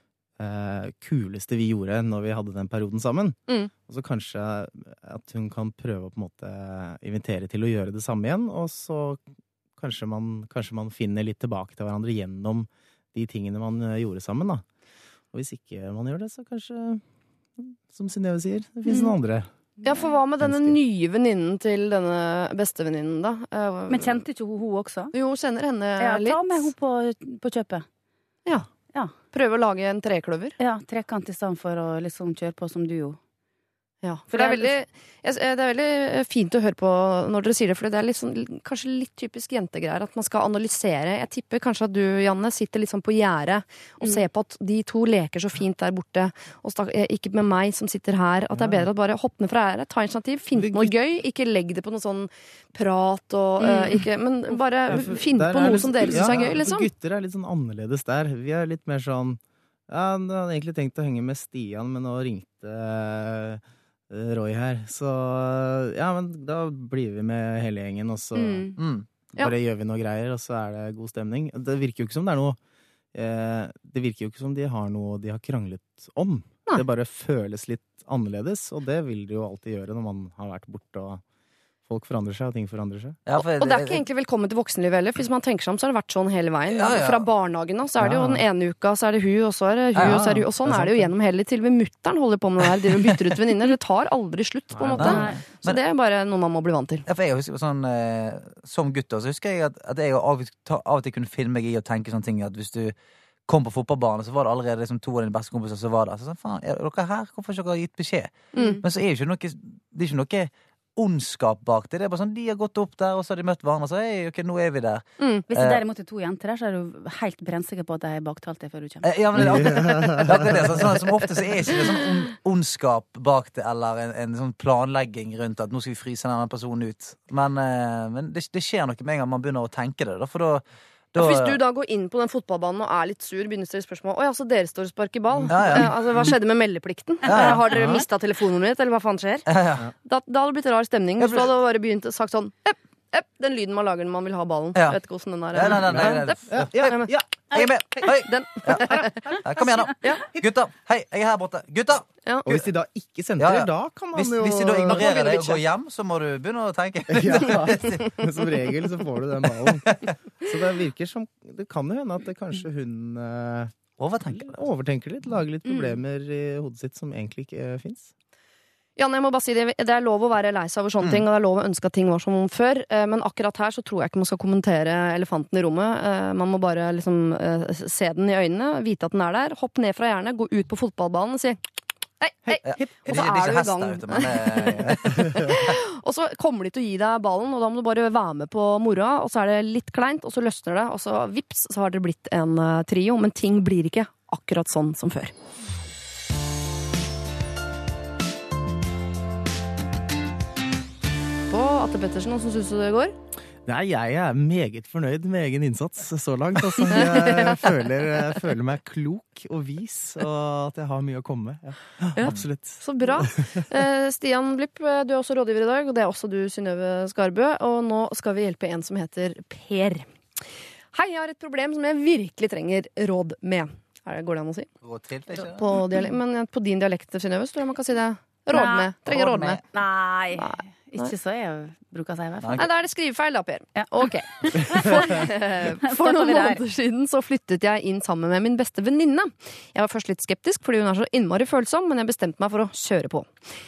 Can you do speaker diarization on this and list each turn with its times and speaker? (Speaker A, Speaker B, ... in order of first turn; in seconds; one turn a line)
Speaker A: 0.4-9.2
Speaker A: 9.8-14.6
Speaker A: 15.3-17.0
Speaker A: 17.6-19.5
Speaker B: 19.8-24.2
Speaker A: 20.4-20.8
Speaker C: 23.9-25.1
Speaker B: 25.1-26.7
Speaker C: 26.0-27.8
Speaker B: 29.3-30.6
Speaker C: 30.6-33.2
Speaker B: 34.0-56.9
Speaker C: 34.3-34.7
Speaker A: 48.5-48.9
Speaker A: 50.5-50.9
Speaker C: 53.6-54.1
Speaker A: 54.9-68.7
Speaker C: 68.3-68.8
Speaker D: 68.8-69.1
Speaker A: 69.4-72.6
Speaker A: 73.1-81.2
Speaker A: 81.8-83.2
Speaker D: 83.2-84.0
Speaker B: 83.4-97.0
Speaker D: 86.7-87.2
Speaker A: 88.0-88.4
Speaker D: 89.9-90.4
Speaker A: 90.0-91.1
Speaker A: 94.7-95.3
Speaker D: 94.9-95.8
Speaker C: 95.0-95.4
Speaker D: 97.1-102.9
Speaker D: 103.5-115.8
Speaker B: 108.5-108.8
Speaker C: 108.5-108.8
Speaker C: 115.5-119.0
Speaker D: 119.0-131.6
Speaker A: 119.4-120.8
Speaker B: 131.2-139.5
Speaker A: 135.4-135.8
Speaker D: 135.5-136.3
Speaker D: 137.2-137.6
Speaker A: 137.7-138.0
Speaker D: 139.5-139.9
Speaker B: 140.0-149.4
Speaker D: 141.2-141.5
Speaker D: 145.5-152.6
Speaker A: 145.6-147.6
Speaker A: 152.4-155.4
Speaker D: 153.4-158.2
Speaker B: 154.9-155.6
Speaker A: 157.1-163.7
Speaker D: 164.0-164.6
Speaker A: 164.4-168.1
Speaker B: 169.0-181.6
Speaker B: 182.2-195.3
Speaker D: 182.6-185.6
Speaker B: 201.5-203.1
Speaker A: 203.7-213.6
Speaker B: 206.9-207.6
Speaker B: 212.1-220.1
Speaker B: 220.9-224.7
Speaker D: 224.8-225.8
Speaker B: 225.3-229.6
Speaker C: 228.5-232.6
Speaker D: 229.1-229.6
Speaker B: 230.4-231.1
Speaker D: 232.4-232.7
Speaker B: 232.5-243.3
Speaker C: 233.8-235.3
Speaker C: 235.8-236.6